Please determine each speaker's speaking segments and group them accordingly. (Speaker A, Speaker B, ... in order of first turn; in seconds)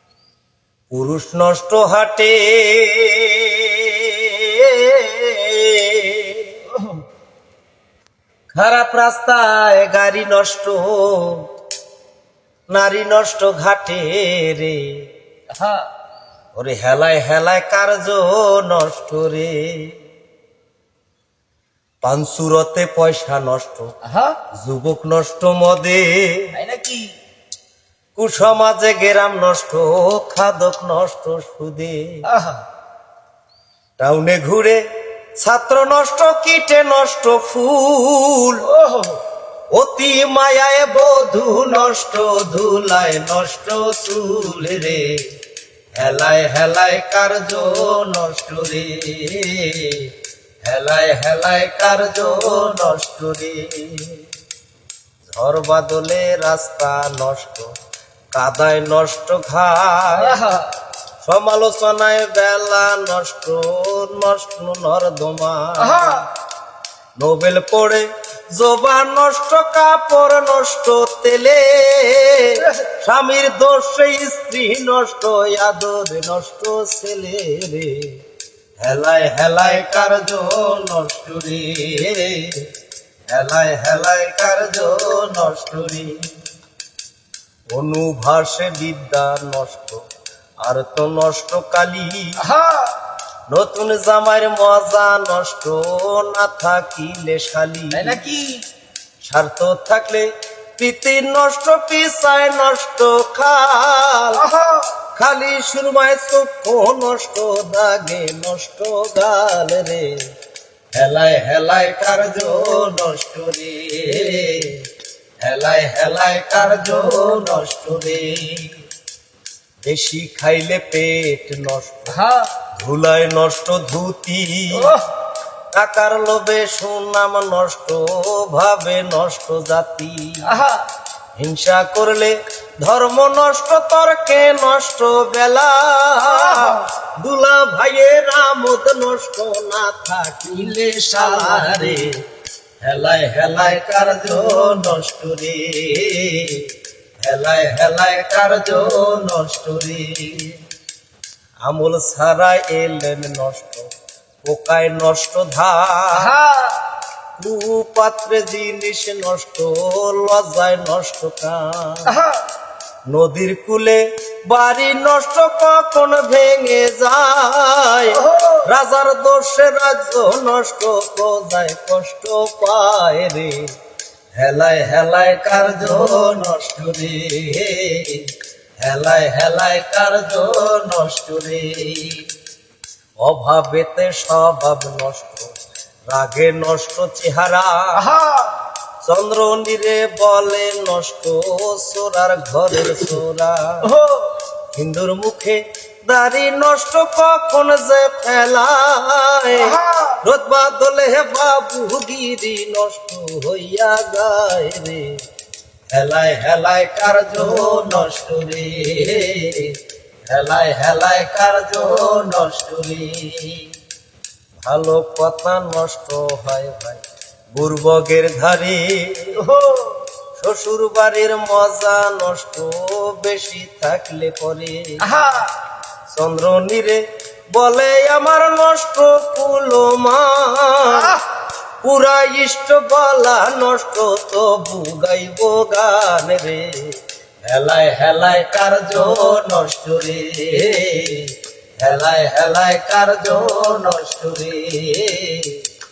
Speaker A: 0.9-6.6, 8.5-11.5, 12.7-15.1, 16.6-20.0, 22.0-23.9, 24.6-26.5, 28.2-32.2, 34.0-34.8, 35.4-38.6, 39.7-45.2, 46.0-50.1, 50.6-54.2, 55.3-57.7, 58.3-60.4, 61.2-66.2, 67.2-78.2, 78.8-82.7, 83.3-86.3, 87.7-90.0, 90.6-92.4, 93.5-98.2, 99.2-104.4, 105.2-110.3, 110.9-114.8, 115.4-118.8, 119.8-122.2, 122.8-124.9, 125.7-130.5, 131.4-142.2, 142.8-150.6, 151.7-153.9, 154.4-156.3, 157.4-162.1, 163.1-173.7, 174.4-178.3, 178.8-182.3, 183.2-185.5, 186.1-188.0, 189.0-193.9, 194.7-205.2, 205.9-209.8, 210.3-213.7, 214.7-217.0, 217.5-219.4, 220.4-225.0, 226.1-227.0, 227.5-231.2, 231.8-245.6
Speaker B: 6.7-7.0, 15.5-15.9, 24.0-24.4, 26.5-27.1, 32.3-32.6, 38.6-39.2, 60.1-60.7, 65.8-66.3, 92.4-92.9, 97.9-98.6, 104.3-104.9, 122.1-122.5, 124.7-125.1, 130.5-130.8, 136.3-136.8, 140.5-142.1, 156.2-156.8, 162.1-162.4, 168.1-168.6, 188.0-188.5, 193.9-194.3, 199.6-200.2, 219.4-220.0, 225.0-225.5, 230.9-231.2